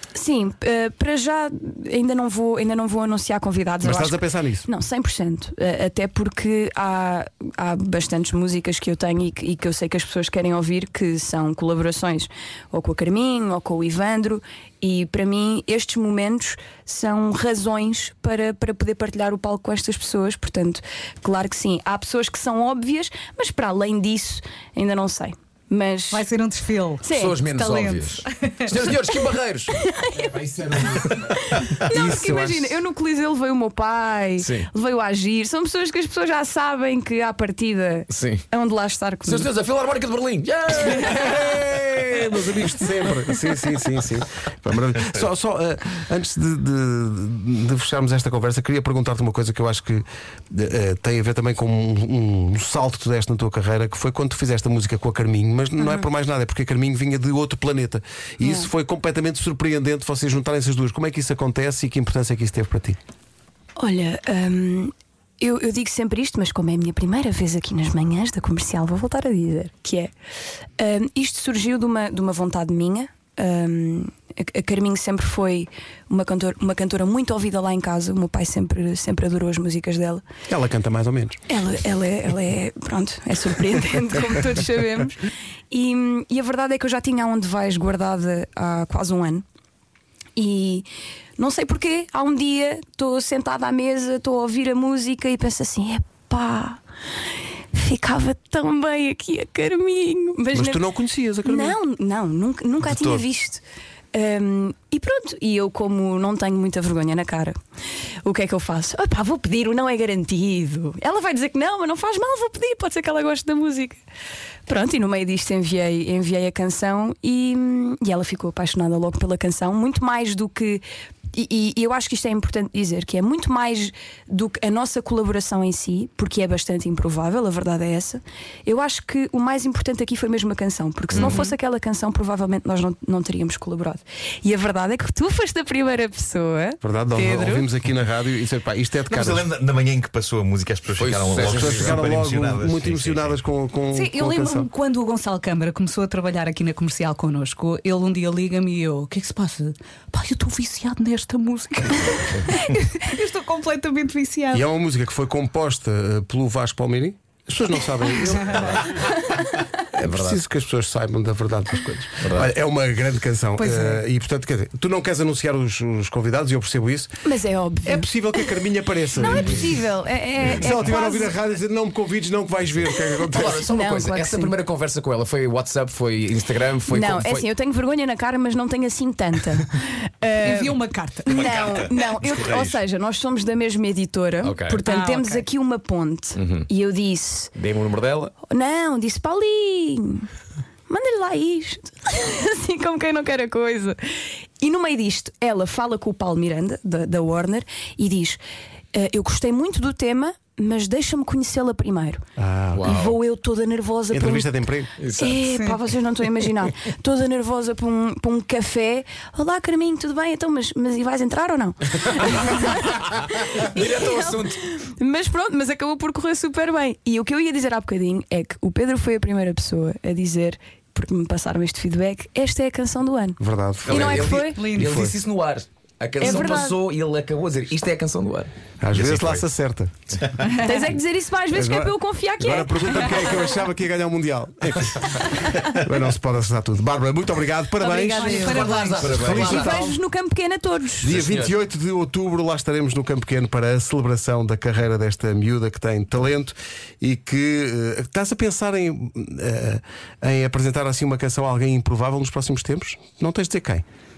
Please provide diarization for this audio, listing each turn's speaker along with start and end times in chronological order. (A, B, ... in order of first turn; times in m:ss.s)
0:00.2-0:26.3 A
0:03.8-0:04.7 B
0:26.1-0:28.8 C
0:27.0-0:27.4 A
0:27.1-0:29.8 D
0:29.2-0:39.5 A
0:30.8-0:31.1 B
0:31.9-0:32.8 B
0:34.4-0:34.7 D
0:38.1-0:38.4 D
0:39.2-0:41.7 D
0:41.0-1:03.0 B
0:55.8-0:56.1 A
0:58.4-0:58.7 A
1:03.8-1:10.1 A
1:10.8-1:20.2 A
1:20.5-1:21.4 B
1:21.5-1:29.4 A
1:30.4-1:30.9 A
1:31.4-1:36.8 A
1:37.7-1:40.8 A
1:40.5-1:41.8 B
1:41.4-1:43.6 A
1:42.8-1:43.2 E
1:44.1-1:47.6 A
1:48.2-1:54.0 A
1:54.7-2:17.7 A
2:11.1-2:11.4 D
2:11.2-2:11.6 C
2:16.8-2:19.5 B
2:19.1-2:23.4 E
2:21.0-2:22.0 D
2:21.4-2:24.7 B
2:23.9-2:34.6 C
2:34.5-2:39.2 B
2:39.0-2:39.6 A
2:39.9-2:47.2 B
2:40.0-2:40.4 D
2:42.2-2:42.5 D
2:43.6-2:44.0 C
2:47.2-2:48.1 A
2:47.8-2:49.8 B
2:49.1-2:51.4 A
2:50.4-2:53.7 B
2:53.2-2:57.5 D
2:53.6-2:54.6 A
2:56.9-3:00.8 A
3:00.4-3:01.4 C
3:01.3-3:02.8 E
3:01.3-3:07.5 A
3:04.4-3:04.8 D
3:04.8-3:05.5 C
3:06.4-3:06.7 D
3:07.6-3:08.4 D
3:08.4-3:10.3 A
3:10.9-3:18.4 A
3:18.9-3:22.2 A
3:22.4-3:23.0 B
3:22.7-3:23.2 D
3:22.8-3:24.5 A
3:24.1-3:24.9 B
3:25.0-3:25.4 D
3:25.2-3:44.7 A
3:25.4-3:25.8 C
3:32.9-3:34.6 D
3:43.4-3:45.2 B
3:43.8-3:48.5 D
3:44.6-3:45.0 C
3:46.2-3:46.8 A
3:48.8-3:50.0 B
3:48.9-3:49.5 E
3:50.2-3:50.5 E
3:50.5-3:53.5 A
3:51.5-3:59.9 B
3:57.8-4:01.1 A
3:58.2-3:59.9 C
3:58.5-3:59.9 D
4:01.0-4:13.8 B
4:01.0-4:01.6 D